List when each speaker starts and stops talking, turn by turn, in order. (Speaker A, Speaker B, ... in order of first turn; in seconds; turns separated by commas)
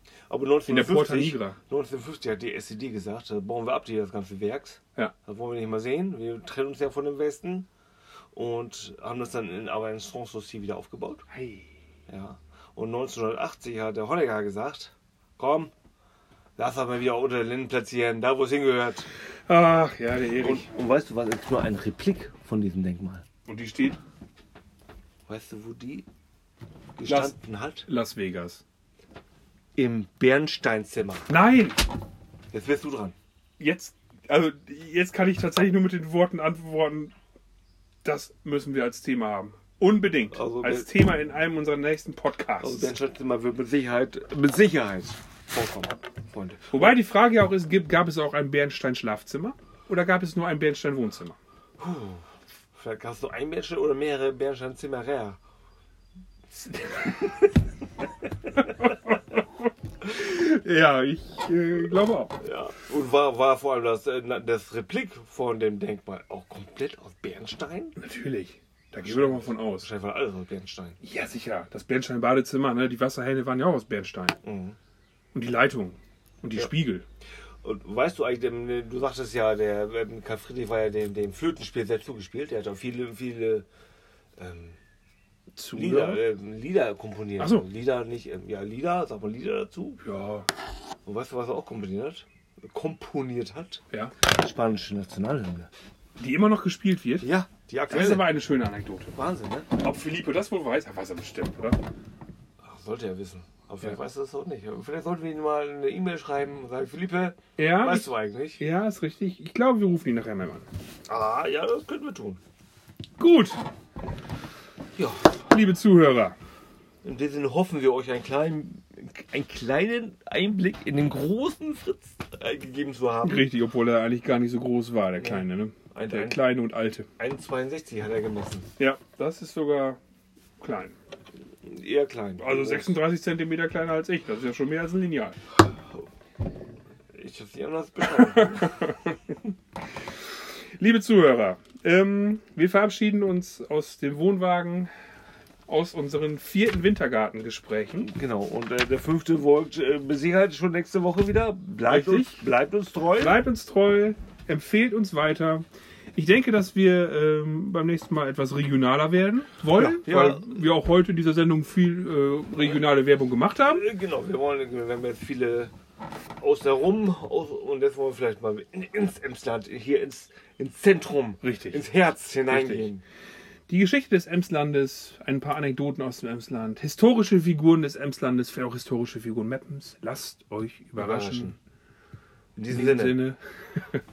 Speaker A: 0.3-7.7, Speaker B: 0.7-1.6, Speaker A: 8.3-11.3, Speaker B: 11.3-11.7, Speaker A: 12.1-15.7, Speaker A: 16.6-19.1, Speaker B: 19.5-20.7, Speaker A: 20.4-23.2, Speaker B: 23.5-24.0, Speaker A: 25.3-26.1, Speaker A: 27.0-27.9, Speaker B: 27.1-27.4, Speaker B: 27.9-28.6, Speaker A: 29.8-31.4, Speaker B: 31.3-31.8, Speaker A: 32.5-33.2, Speaker B: 33.6-37.1, Speaker B: 38.0-42.9, Speaker A: 40.3-40.9, Speaker A: 42.6-47.0, Speaker B: 46.7-51.4, Speaker A: 51.8-55.4, Speaker A: 56.7-57.2, Speaker A: 58.6-58.8, Speaker B: 58.8-59.4, Speaker B: 60.0-62.4, Speaker A: 62.4-68.0, Speaker B: 68.0-69.9, Speaker A: 69.0-71.0, Speaker B: 71.0-74.4, Speaker A: 74.4-74.8, Speaker B: 75.3-77.0, Speaker A: 77.6-83.7, Speaker A: 84.4-84.8, Speaker B: 85.6-86.2, Speaker A: 85.7-90.0, Speaker B: 87.4-87.7, Speaker B: 90.0-90.5, Speaker A: 91.1-95.7, Speaker B: 96.2-97.3, Speaker A: 97.2-98.3, Speaker B: 97.9-99.1, Speaker A: 99.1-99.7, Speaker B: 99.8-101.8, Speaker A: 102.6-108.6, Speaker B: 107.6-110.7, Speaker A: 111.1-112.4, Speaker B: 113.2-113.6, Speaker A: 115.0-115.3, Speaker B: 115.5-116.4, Speaker A: 117.0-123.5, Speaker B: 123.2-127.1, Speaker A: 125.2-126.5, Speaker A: 127.2-128.7, Speaker B: 128.8-130.0, Speaker B: 130.6-130.9, Speaker A: 131.6-132.9, Speaker B: 132.4-135.4, Speaker A: 137.1-139.0, Speaker B: 138.1-139.3, Speaker B: 140.3-144.9, Speaker B: 145.7-148.1, Speaker A: 148.0-153.4, Speaker B: 151.9-152.5, Speaker B: 153.2-163.9, Speaker A: 159.8-160.6, Speaker A: 163.7-165.7, Speaker A: 166.4-173.0, Speaker B: 171.4-171.8, Speaker B: 172.5-172.9, Speaker B: 173.7-181.6, Speaker A: 181.0-181.6, Speaker A: 182.6-183.2, Speaker B: 182.7-184.0